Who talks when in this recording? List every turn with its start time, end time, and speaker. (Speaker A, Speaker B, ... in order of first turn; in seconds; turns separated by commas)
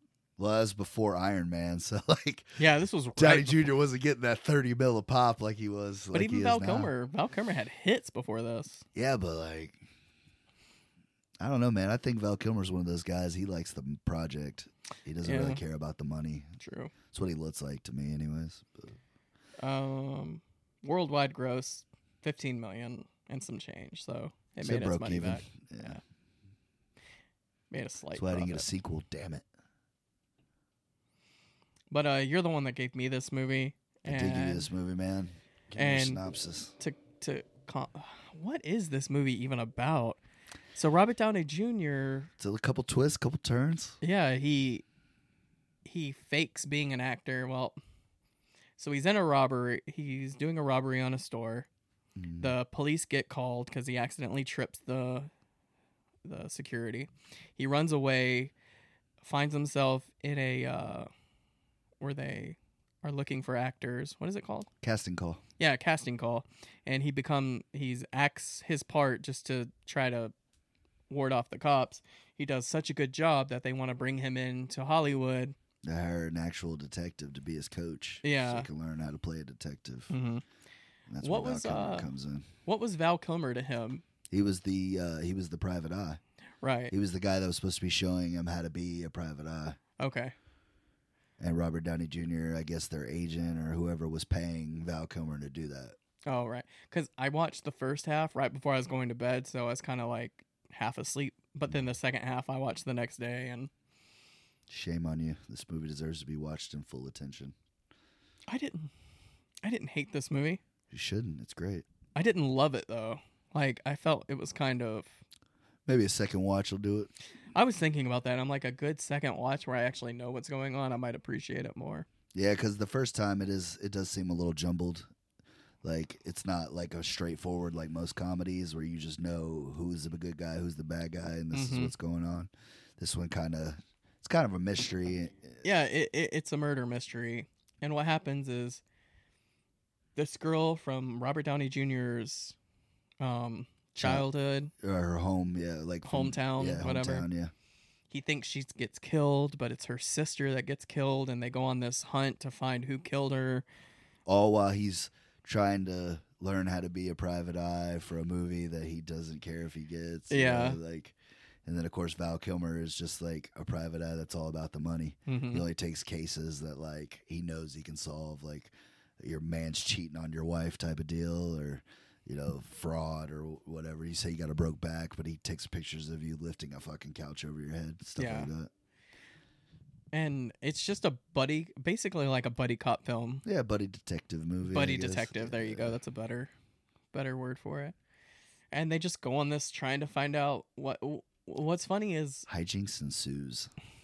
Speaker A: 0.4-2.6, Speaker B: 2.6-3.7, Speaker A: 3.2-6.9, Speaker B: 6.1-8.8, Speaker A: 8.9-9.8, Speaker A: 11.4-16.5, Speaker B: 15.2-15.6, Speaker B: 16.6-16.9, Speaker A: 17.1-19.0, Speaker B: 19.6-26.0, Speaker A: 24.6-26.0, Speaker B: 27.7-28.7, Speaker A: 28.1-29.4, Speaker B: 31.9-34.7, Speaker A: 34.0-36.7, Speaker B: 35.8-36.2, Speaker B: 36.8-40.2, Speaker B: 40.7-42.3, Speaker A: 42.4-44.0, Speaker B: 44.0-44.8, Speaker B: 45.9-47.8, Speaker B: 48.8-51.7, Speaker A: 52.2-52.5, Speaker B: 52.4-55.3, Speaker B: 56.2-58.5, Speaker B: 59.2-61.1, Speaker B: 62.0-64.7, Speaker A: 64.8-65.4, Speaker B: 65.6-70.3, Speaker B: 71.1-75.5, Speaker A: 75.8-80.1, Speaker B: 78.2-78.7, Speaker B: 80.1-80.4, Speaker A: 81.1-82.5, Speaker B: 81.2-82.1, Speaker B: 82.6-84.0, Speaker A: 84.3-86.2, Speaker B: 86.6-86.9, Speaker A: 86.9-89.8, Speaker B: 90.0-90.3, Speaker A: 91.4-96.0, Speaker B: 96.3-103.7, Speaker A: 104.7-107.5, Speaker B: 108.5-108.9, Speaker B: 109.6-110.6, Speaker A: 110.9-111.8, Speaker B: 112.1-115.2, Speaker A: 115.8-117.1, Speaker B: 117.5-122.1, Speaker A: 122.3-125.1, Speaker A: 125.8-135.6, Speaker B: 131.5-131.9, Speaker B: 135.6-138.8, Speaker B: 140.2-142.6, Speaker B: 143.2-144.7, Speaker A: 144.0-144.2, Speaker A: 144.8-147.5, Speaker B: 146.0-147.3, Speaker B: 148.1-153.7, Speaker A: 154.2-178.7, Speaker B: 160.3-160.8, Speaker B: 165.3-165.6, Speaker B: 178.2-178.5, Speaker B: 180.1-183.4, Speaker A: 183.4-185.9, Speaker B: 184.7-186.5, Speaker B: 187.1-187.9, Speaker B: 188.7-192.4, Speaker A: 192.5-193.7